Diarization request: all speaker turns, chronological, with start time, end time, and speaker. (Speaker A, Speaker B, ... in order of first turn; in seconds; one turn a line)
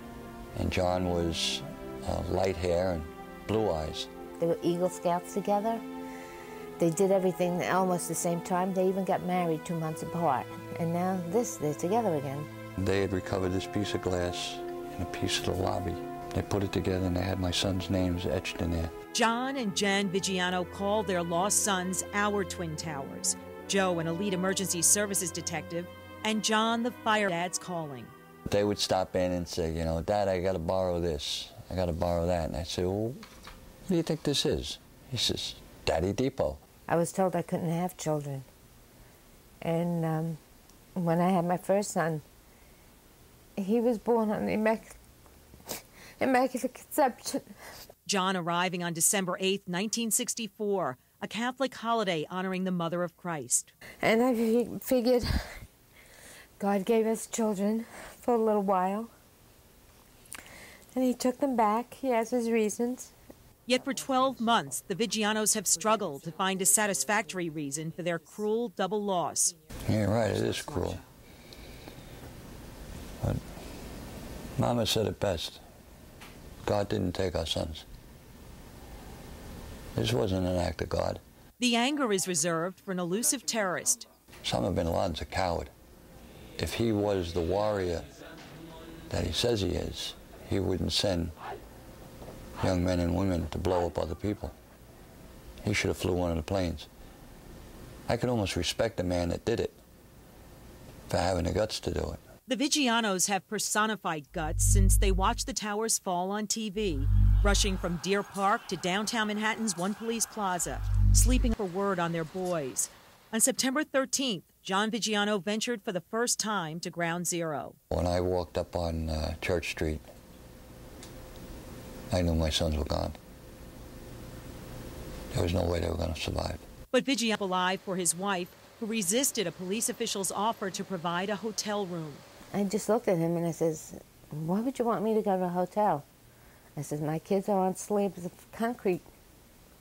Speaker A: 0.6-4.1
Speaker B: 4.4-5.8
Speaker B: 6.8-12.5
Speaker A: 12.8-18.9
Speaker C: 19.1-28.1
Speaker A: 28.5-33.2
Speaker A: 33.9-36.6
Speaker B: 36.9-38.5
Speaker B: 39.6-40.4
Speaker B: 41.0-42.2
Speaker B: 43.6-45.0
Speaker B: 46.2-47.5
Speaker C: 48.1-53.7
Speaker B: 54.0-55.3
Speaker B: 56.6-59.1
Speaker B: 60.9-63.1
Speaker C: 63.7-69.5
Speaker A: 69.9-71.0
Speaker A: 74.6-75.6
Speaker A: 76.6-77.9
Speaker A: 80.0-81.2
Speaker C: 81.6-84.1
Speaker A: 84.5-85.7
Speaker A: 86.6-88.1
Speaker A: 89.1-91.3
Speaker A: 92.6-94.5
Speaker A: 95.6-96.9
Speaker A: 98.1-99.8
Speaker A: 101.1-102.2
Speaker C: 102.5-117.8
Speaker A: 117.9-120.1
Speaker A: 122.1-123.2
Speaker A: 125.3-126.7
Speaker C: 126.9-132.2
Speaker B: 132.5-136.1
Speaker B: 136.8-139.1